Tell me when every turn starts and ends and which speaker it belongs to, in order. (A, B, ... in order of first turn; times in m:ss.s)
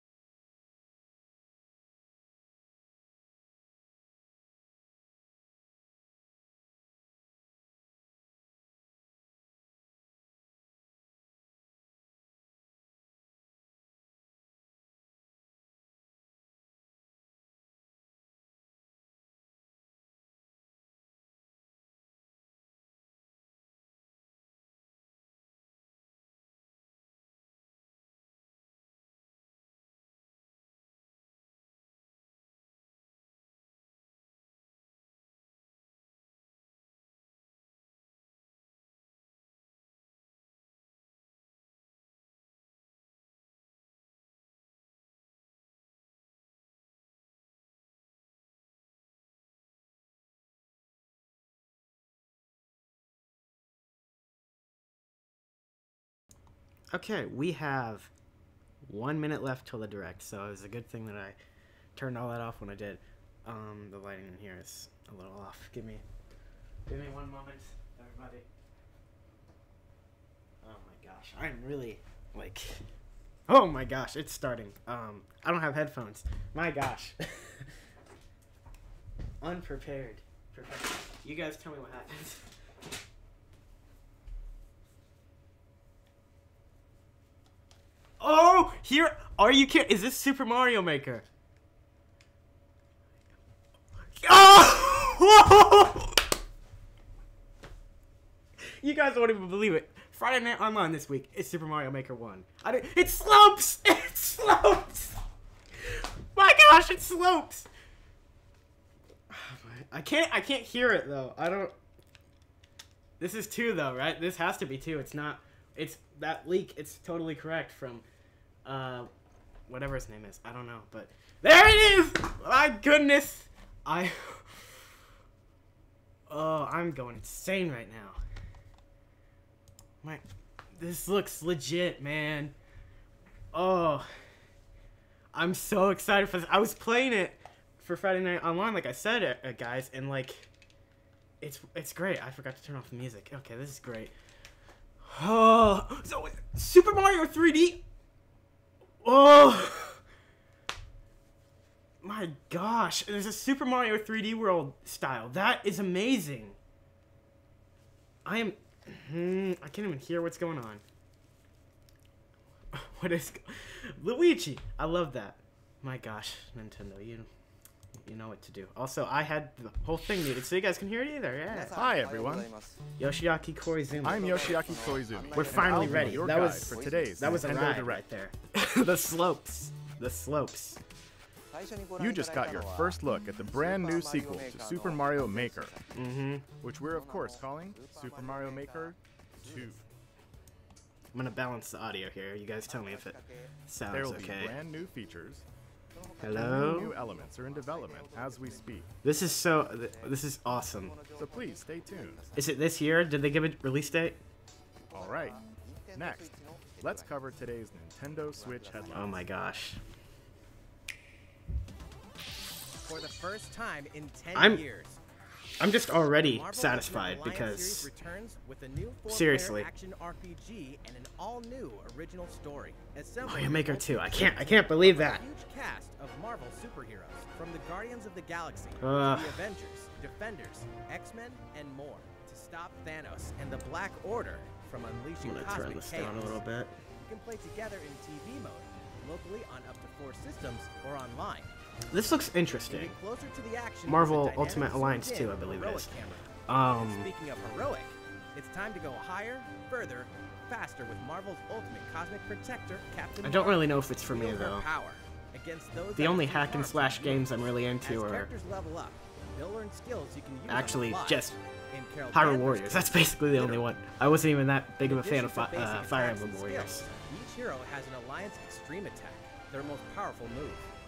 0:56.9-0:58.1 A
0:58.8-1:01.4 A
1:01.9-1:06.0 A
1:06.8-1:08.5 A
1:10.6-1:12.8 A
1:13.5-1:17.7 A
1:19.4-1:22.5 A
1:28.2-1:31.2 A
1:33.9-1:36.3 A
1:38.6-1:45.2 A
1:45.7-1:47.7 A
1:49.3-1:51.7 A
1:53.2-1:58.0 A
1:58.6-1:59.1 A
1:59.7-2:05.0 A
2:06.3-2:08.2 A
2:10.0-2:12.6 A
2:13.5-2:14.1 A
2:15.3-2:20.5 A
2:21.4-2:24.2 A
2:25.0-2:27.8 A
2:29.0-2:30.0 A
2:32.0-2:36.6 A
2:38.2-2:40.8 A
2:42.7-2:47.3 A
2:48.0-2:51.8 A
2:51.7-2:52.5 B
2:53.0-2:54.4 A
2:54.0-2:58.0 B
2:55.3-3:00.8 A
3:02.0-3:05.8 B
3:05.9-3:06.4 A
3:06.6-3:09.8 B
3:11.1-3:14.5 A
3:13.9-3:15.4 B
3:16.2-3:17.0 A
3:16.2-3:18.9 B
3:19.0-3:21.0 A
3:21.1-3:22.2 B
3:22.3-3:24.2 A
3:24.9-3:25.4 B
3:25.9-3:29.2 B
3:28.9-3:29.8 A
3:32.8-3:35.0 C
3:34.3-3:34.6 A
3:35.6-3:37.9 A
3:36.2-3:56.4 C
3:39.1-3:39.7 A
3:43.2-3:45.2 A
3:48.8-3:49.4 A
3:55.2-3:56.7 A
3:57.0-4:01.5 C
4:01.9-4:02.9 A
4:02.7-4:23.7 C
4:03.8-4:05.9 A
4:06.5-4:07.1 A
4:13.2-4:14.6 A
4:16.0-4:18.3 A
4:20.5-4:21.4 A
4:22.1-4:26.9 A
4:24.8-4:30.7 C